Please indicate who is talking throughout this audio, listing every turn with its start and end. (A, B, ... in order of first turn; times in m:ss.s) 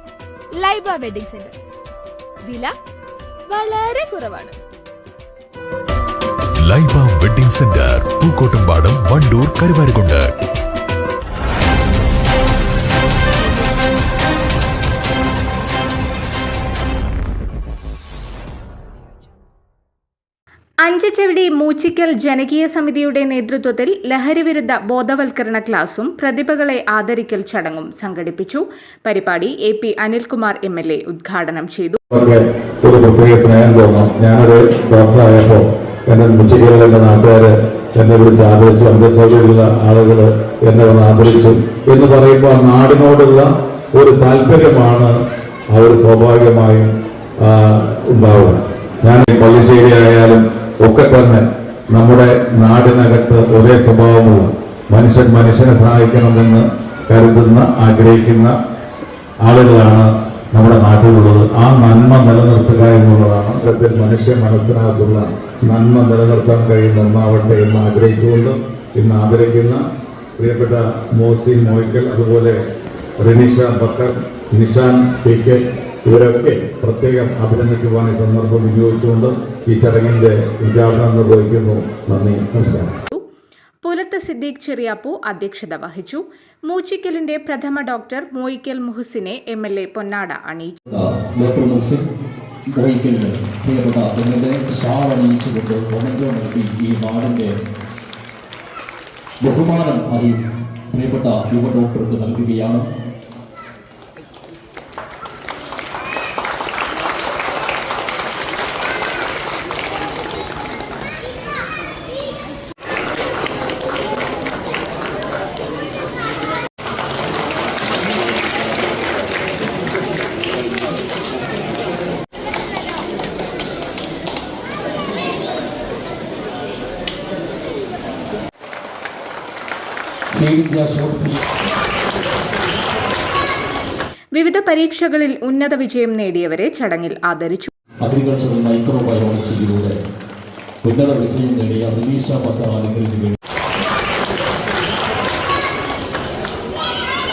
0:00.6-0:01.6 A
0:02.4-0:02.7 A
0:03.5-0:04.6 A
0:06.6-0:10.3 B
0:20.8-0:32.0 C
0:32.1-0:45.1 D
0:45.7-0:46.9 D
0:47.4-0:58.5 D
0:59.4-1:09.8 D
1:10.4-1:12.6 D
1:13.2-1:22.9 D
1:23.8-1:30.8 C
1:30.9-1:32.0 E
1:32.7-1:37.5 E
1:39.4-1:40.4 E
1:40.9-1:42.9 E
2:10.3-2:11.4 E
2:14.3-2:17.7 C
2:18.0-2:20.0 E
2:20.8-2:23.4 E